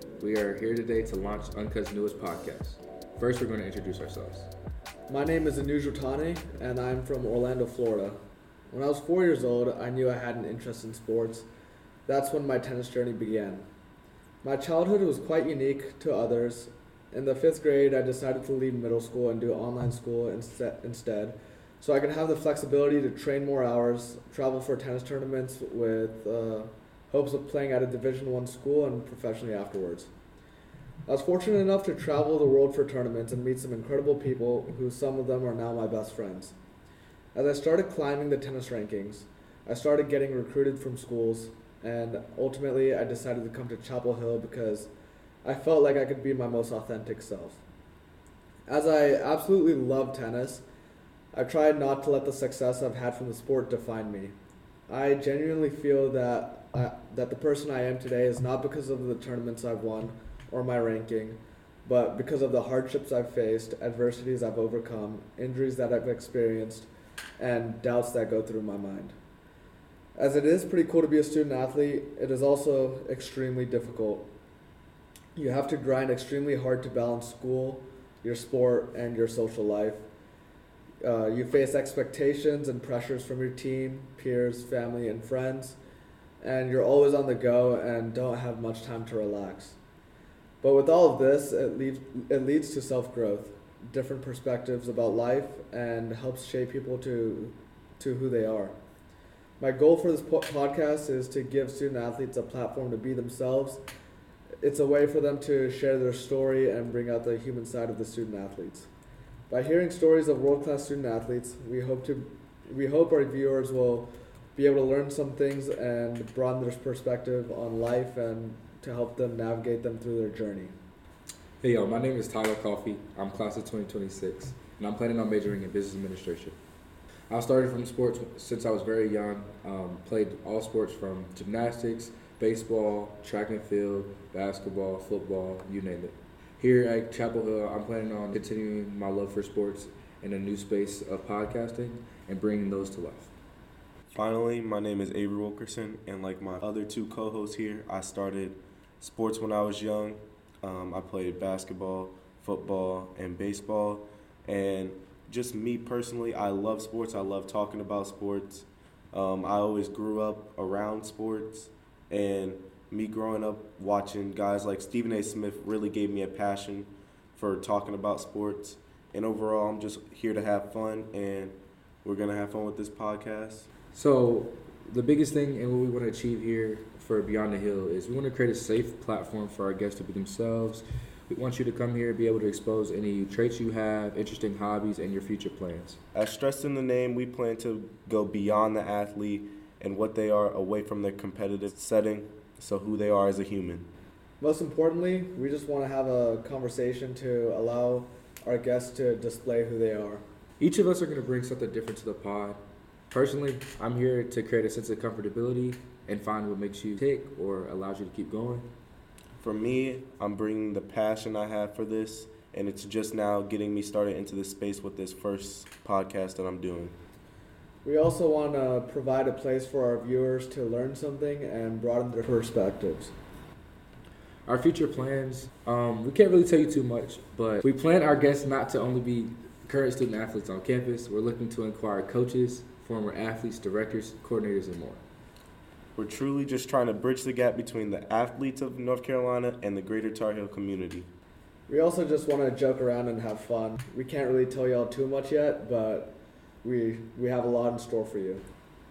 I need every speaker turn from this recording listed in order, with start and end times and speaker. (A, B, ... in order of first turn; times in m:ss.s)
0:00.2-0:04.5 A
0:05.1-0:08.2 B
0:08.7-0:11.5 B
0:12.1-0:13.7 B
0:14.4-0:30.1 B
0:31.1-0:36.6 B
0:37.3-0:44.9 B
0:45.4-0:47.6 B
0:48.7-0:50.6 B
0:51.3-0:54.3 B
0:54.9-1:09.2 B
1:10.2-1:14.3 B
1:15.4-1:20.0 B
1:21.0-1:25.8 B
1:26.4-1:29.8 B
1:30.6-1:38.8 B
1:39.6-1:43.8 B
1:44.6-1:48.9 B
1:49.5-2:00.7 B
2:01.6-2:06.6 A
2:07.3-2:23.3 A
2:24.1-2:53.7 C
2:53.9-3:06.0 A
3:06.1-3:13.9 C
3:14.4-3:20.2 B
3:20.6-3:22.6 A
3:23.1-3:28.7 A
3:29.4-3:37.0 C
3:37.8-3:43.1 B
3:44.5-3:55.0 A
3:56.0-4:01.1 C
4:01.7-4:08.4 B